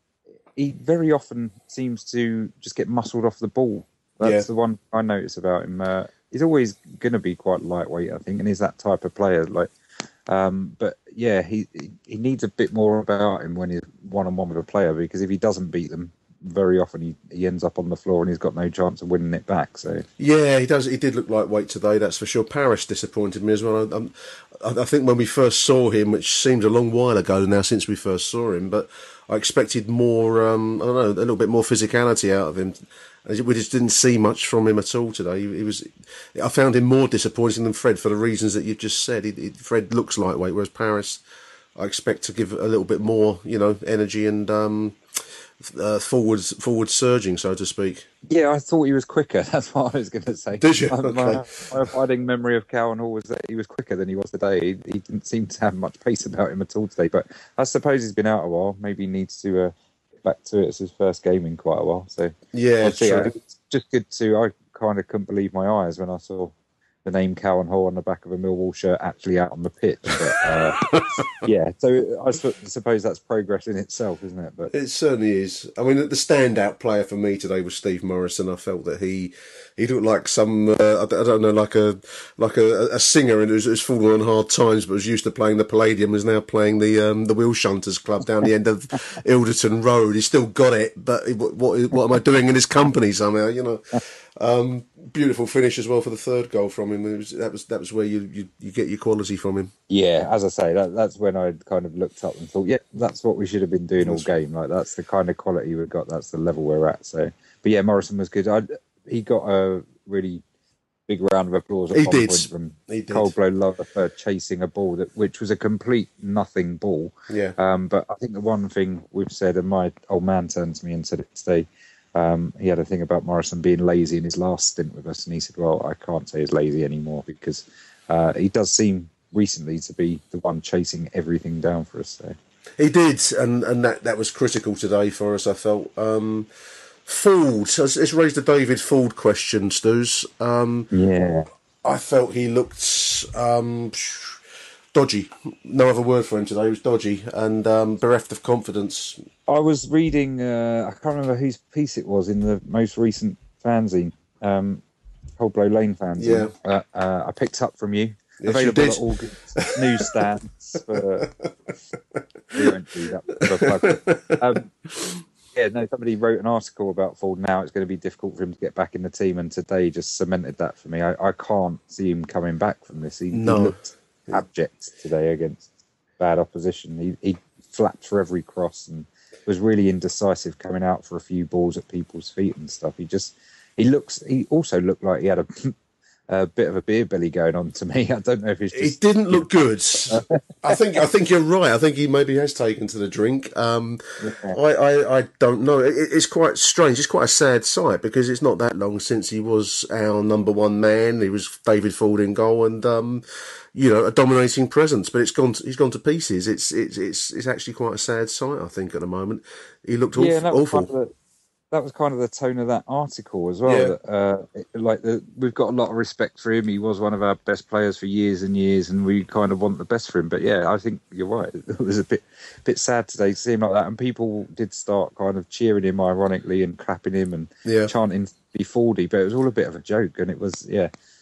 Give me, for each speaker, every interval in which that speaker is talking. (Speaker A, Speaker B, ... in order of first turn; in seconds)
Speaker A: 0.6-9.7, 10.3-20.1, 48.3-66.5, 67.0-70.8, 71.4-74.7, 99.9-110.4, 111.1-132.3, 140.9-141.5, 149.5-154.8, 155.4-161.3, 162.5-164.7, 165.5-175.7, 176.2-185.7, 186.3-190.8, 194.2-194.6, 210.1-211.1, 211.7-230.9
Speaker B: 4.2-4.5, 20.2-41.2, 41.8-45.0, 45.6-48.1, 50.6-51.9, 62.5-63.3, 70.2-71.5, 74.7-99.7, 104.0-104.3, 111.9-113.3, 117.3-117.6, 132.8-136.5, 137.1-140.9, 141.8-144.4, 144.9-149.2, 156.2-156.5, 158.4-160.3, 160.9-161.2, 162.1-162.8, 163.3-165.2, 173.3-173.8, 188.7-203.2, 203.7-210.9, 213.7-213.9, 227.6-227.9